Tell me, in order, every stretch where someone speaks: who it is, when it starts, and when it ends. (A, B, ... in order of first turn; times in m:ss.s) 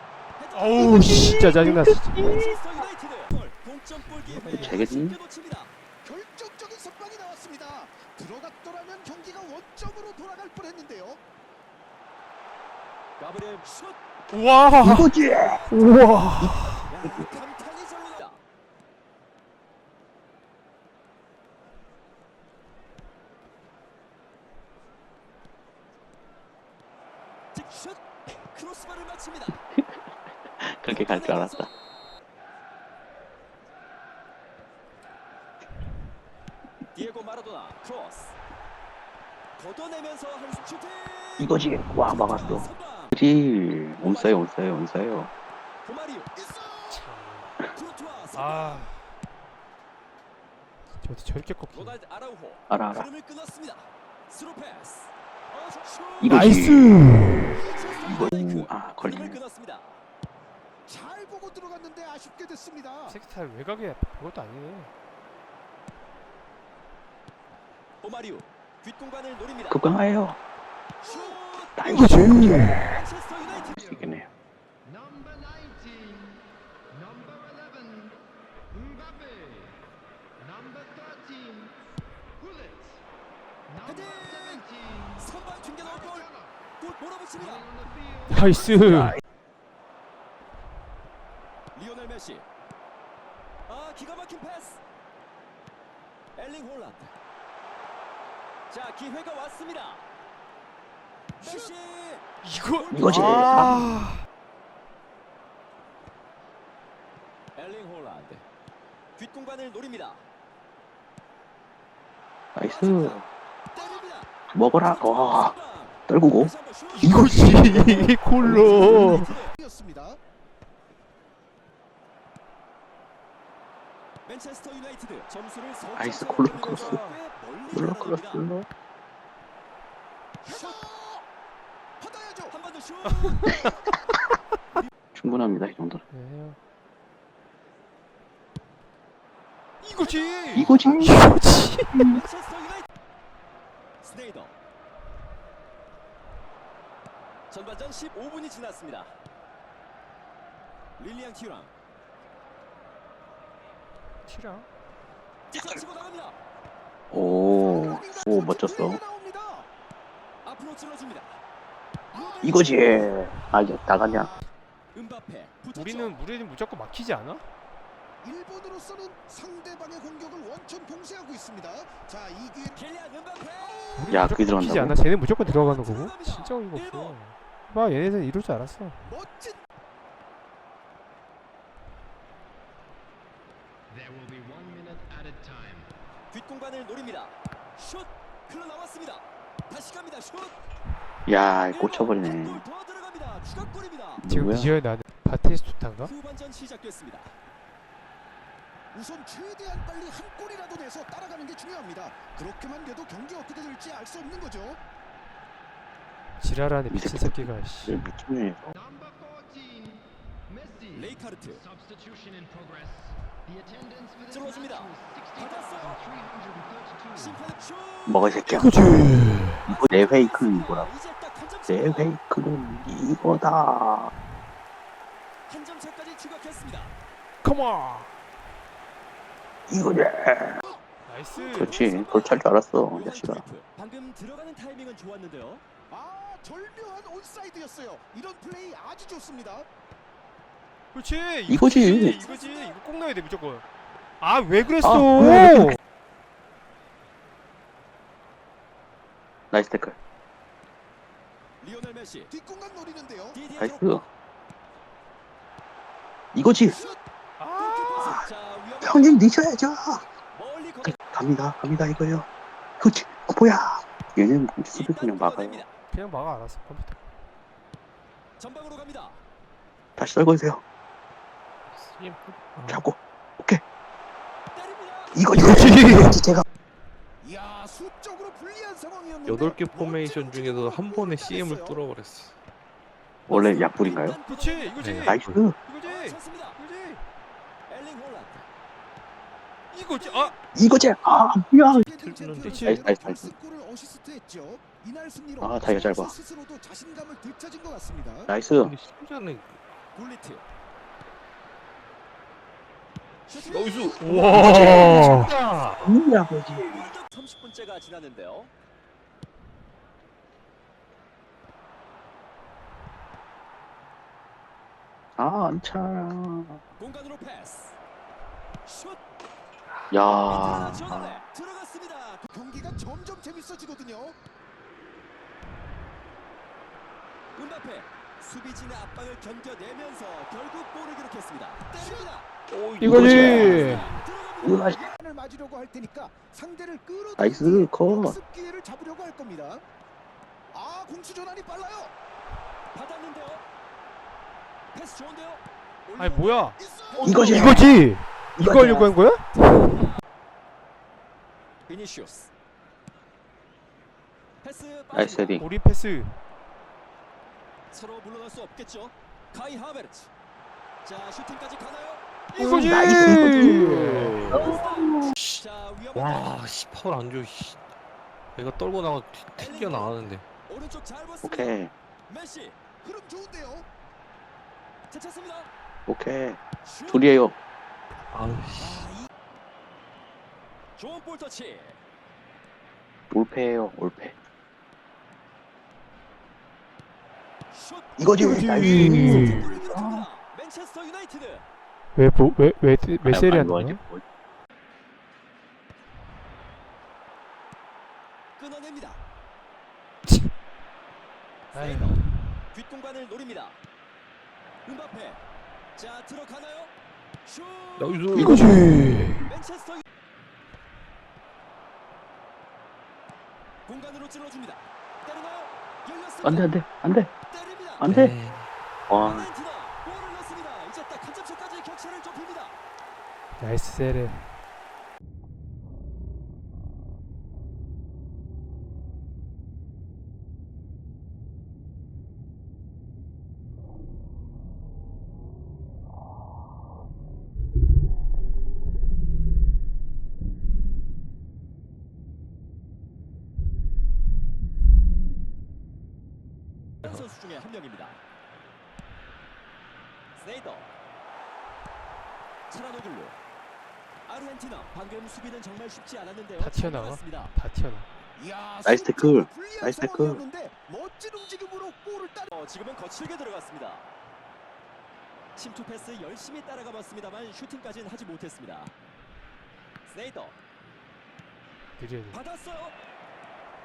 0:00.4-0:01.1 A
0:00.5-0:02.2 B
0:00.8-0:02.6 C
0:02.2-0:05.7 A
0:04.0-0:04.8 B
0:04.5-0:05.2 C
0:06.0-0:11.2 D
0:13.2-0:14.0 A
0:14.3-0:15.1 B
0:14.7-0:15.6 C
0:15.3-0:15.9 A
0:15.7-0:16.9 B
0:16.4-0:17.2 C
0:16.9-0:18.4 A
0:27.5-0:28.0 A
0:28.5-0:29.6 A
0:29.7-0:30.0 C
0:30.6-0:31.7 C
0:30.9-0:31.7 A
0:36.9-0:38.4 A
0:39.6-0:41.5 A
0:41.4-0:45.3 C
0:42.1-0:43.1 A
0:44.0-0:44.4 A
0:45.8-0:46.3 A
0:46.3-0:47.0 D
0:46.9-0:47.6 B
0:47.7-0:48.9 A
0:48.3-0:49.1 B
0:51.0-0:52.0 B
0:51.7-0:56.6 A
0:52.7-0:53.1 C
0:56.2-0:57.0 C
0:56.2-0:57.6 B
0:57.6-1:00.0 A
0:57.6-0:58.2 D
0:58.0-0:59.4 C
1:00.9-1:03.2 D
1:03.1-1:04.9 B
1:08.0-1:09.8 A
1:09.7-1:10.4 C
1:11.0-1:12.1 A
1:11.0-1:11.4 D
1:11.8-1:14.3 C
1:11.8-1:12.9 B
1:12.6-1:14.0 A
1:14.8-1:19.8 E
1:20.4-1:21.8 E
1:22.4-1:23.0 E
1:23.7-1:26.5 E
1:23.8-1:26.3 A
1:26.8-1:27.7 A
1:27.4-1:28.4 E
1:28.3-1:29.2 B
1:31.7-1:32.4 A
1:33.7-1:34.8 A
1:36.4-1:37.1 A
1:38.7-1:40.0 A
1:41.4-1:42.3 A
1:42.4-1:44.2 B
1:42.8-1:43.8 A
1:42.9-1:44.0 C
1:47.5-1:48.4 A
1:49.2-1:50.2 A
1:52.5-1:53.2 C
1:52.6-1:53.2 A
1:53.7-1:54.3 A
1:54.5-1:55.5 C
1:54.8-1:59.5 A
1:56.1-1:56.5 C
1:56.9-1:59.4 B
1:58.4-1:59.1 C
1:58.7-2:00.2 D
2:04.2-2:08.4 A
2:06.0-2:07.0 C
2:06.6-2:07.2 B
2:07.7-2:08.7 C
2:10.4-2:10.8 A
2:10.4-2:11.2 D
2:12.0-2:12.5 D
2:12.5-2:13.5 A
2:13.0-2:13.8 B
2:15.1-2:16.0 C
2:16.1-2:16.6 B
2:19.8-2:22.2 B
2:20.4-2:20.8 A
2:20.5-2:21.2 C
2:22.1-2:22.8 A
2:24.0-2:24.6 A
2:27.5-2:29.1 A
2:31.0-2:31.7 A
2:34.2-2:34.7 B
2:35.5-2:36.4 A
2:35.5-2:35.8 C
2:37.1-2:39.0 C
2:37.5-2:39.7 D
2:40.4-2:41.4 A
2:42.1-2:43.1 D
2:42.1-2:43.0 A
2:42.4-2:44.3 C
2:43.9-2:44.4 D
2:44.9-2:46.2 A
2:45.7-2:47.4 B
2:48.2-2:52.8 D
2:52.8-2:53.8 A
2:53.6-2:54.2 D
2:54.0-2:59.0 B
2:54.1-2:55.0 C
2:55.4-2:57.2 A
2:59.0-2:59.6 D
3:03.9-3:05.9 E
3:06.3-3:10.6 A
3:11.2-3:12.6 C
3:11.7-3:14.2 A
3:14.2-3:14.7 C
3:14.2-3:16.1 B
3:16.0-3:17.3 A
3:18.9-3:24.8 D
3:26.4-3:28.0 B
3:26.9-3:28.7 C
3:28.7-3:37.5 E
3:30.9-3:31.6 A
3:34.3-3:36.0 A
3:37.1-3:38.9 A
3:38.1-3:38.7 C
3:38.5-3:39.7 B
3:39.6-3:42.1 A
3:39.7-3:40.9 C
3:41.7-3:44.1 C
3:45.5-3:46.9 A
3:47.4-3:48.1 B
3:49.7-3:50.6 C
3:51.0-3:51.8 B
3:51.3-3:55.6 A
3:51.5-3:53.5 C
3:55.9-3:59.6 D
4:00.9-4:03.6 B
4:01.5-4:02.2 C
4:02.0-4:02.7 D
4:04.2-4:05.8 B
4:04.8-4:05.8 C
4:09.5-4:10.0 C
4:11.6-4:12.3 A
4:12.3-4:13.4 D
4:13.3-4:14.0 A
4:13.6-4:14.0 C
4:16.3-4:16.8 C
4:16.7-4:17.0 D
4:17.4-4:18.1 B
4:17.6-4:19.2 A
4:18.0-4:18.2 C
4:18.8-4:20.0 C
4:20.3-4:21.0 A
4:21.0-4:22.3 C
4:22.8-4:25.6 C
4:24.7-4:25.7 A
4:25.9-4:27.0 B
4:28.4-4:29.2 A
4:30.0-4:30.6 C
4:31.7-4:32.8 F
4:32.7-4:33.6 C
4:34.5-4:35.2 A
4:35.1-4:36.4 C
4:35.3-4:36.2 B
4:37.2-4:41.8 D
4:39.2-4:42.3 F
4:43.3-4:44.2 C
4:43.3-4:44.8 A
4:44.3-4:47.0 B
4:44.8-4:45.4 F
4:45.0-4:45.5 C
4:45.8-4:46.6 A
4:47.7-4:48.5 A
4:49.7-4:50.3 B
4:50.0-4:50.3 A
4:50.5-4:51.8 C
4:51.7-4:52.6 F
4:51.7-4:58.3 D
4:52.4-4:52.8 B
4:52.6-4:53.3 C
4:55.4-4:56.2 C
4:58.3-4:58.7 C
4:58.5-4:59.6 F
4:59.9-5:00.4 A
5:03.3-5:05.3 A
5:03.4-5:06.0 F
5:04.0-5:05.3 B
5:05.8-5:06.9 C
5:06.6-5:08.5 A
5:15.2-5:16.6 C
5:16.8-5:17.8 A
5:18.6-5:19.0 A
5:19.9-5:21.2 C
5:20.3-5:22.3 A
5:22.3-5:24.2 D
5:27.4-5:32.3 A
5:31.7-5:32.1 D
5:32.5-5:33.8 F
5:32.8-5:33.9 B
5:32.8-5:33.9 C
5:32.9-5:34.9 A
5:34.4-5:34.8 C
5:34.8-5:39.6 D
5:37.2-5:38.2 C
5:40.5-5:41.9 D
5:42.7-5:43.4 A
5:44.7-5:47.8 A
5:46.0-5:46.6 B
5:46.6-5:47.7 D
5:47.0-5:47.7 C
5:47.2-5:49.9 B
5:48.4-5:48.9 C
5:51.7-5:52.3 A
5:54.4-5:55.4 A
5:54.9-5:55.4 C
5:55.4-5:56.2 B
5:57.7-6:00.1 A
6:00.8-6:02.0 A
6:02.3-6:04.3 B
6:02.4-6:05.4 C
6:03.9-6:04.6 F
6:04.3-6:06.3 A
6:05.9-6:07.6 F
6:08.3-6:10.2 F
6:09.4-6:09.9 A
6:10.5-6:11.5 A
6:11.2-6:11.7 C
6:12.1-6:12.6 A
6:12.8-6:13.6 D
6:14.9-6:15.5 A
6:15.9-6:17.3 C
6:16.6-6:17.2 A
6:18.1-6:18.9 F
6:18.6-6:19.0 A
6:20.8-6:21.8 A
6:23.1-6:24.2 C
6:27.5-6:27.9 A
6:28.0-6:30.0 C
6:28.1-6:29.5 B
6:28.6-6:31.5 A
6:31.9-6:33.8 B
6:33.0-6:34.0 C
6:38.4-6:39.0 A
6:41.5-6:42.2 B
6:41.5-6:43.6 A
6:44.6-6:45.2 A
6:45.8-6:46.7 A
6:47.2-6:48.5 A
6:47.8-6:48.5 F
6:48.1-6:48.5 C
6:48.2-6:49.3 B
6:49.2-6:49.8 A
6:53.7-6:56.5 A
6:56.2-6:57.1 C
6:57.3-6:57.9 A
6:57.8-6:58.1 C
6:57.8-6:58.5 F
6:58.9-6:59.3 C
6:59.0-7:02.6 A
7:03.4-7:04.3 B
7:26.8-7:28.0 A
7:30.2-7:30.7 A
7:32.5-7:33.2 A
7:34.1-7:37.3 A
7:36.4-7:37.9 B
7:38.2-7:42.3 D
7:38.6-7:40.2 C
7:42.3-7:43.8 A
7:45.4-7:48.7 A
7:49.9-7:50.4 A
7:51.8-7:52.2 B
7:52.1-7:52.7 A